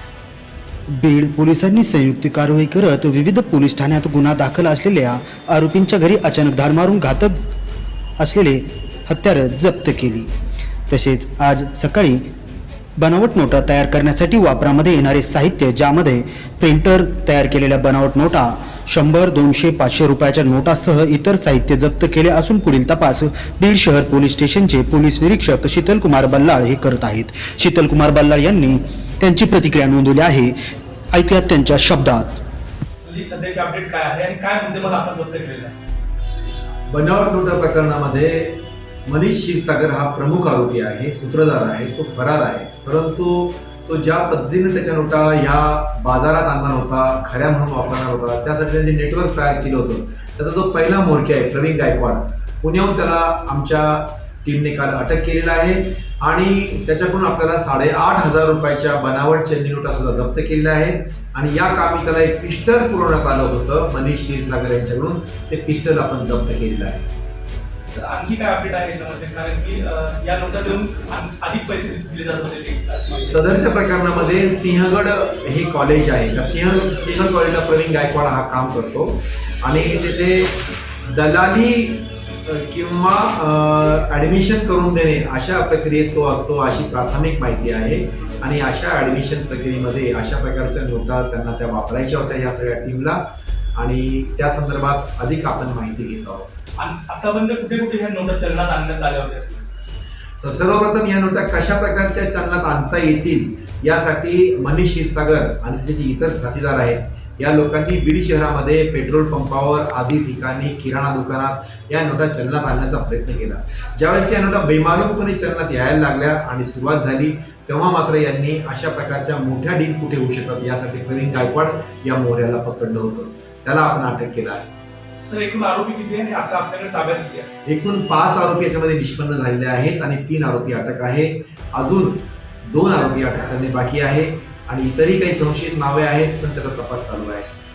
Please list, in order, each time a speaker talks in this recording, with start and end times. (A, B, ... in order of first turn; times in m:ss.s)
0:00.9-0:07.5 A
0:08.2-0:10.3 A
0:10.9-0:12.2 A
0:13.0-0:30.6 A
0:31.1-0:32.4 A
0:33.0-0:35.8 B
0:36.9-1:07.1 C
1:07.9-1:13.5 B
1:13.3-1:33.2 C
1:33.8-1:36.5 C
1:36.8-1:39.6 B
1:40.4-2:04.7 C
2:05.3-2:07.5 B
2:07.7-2:17.5 C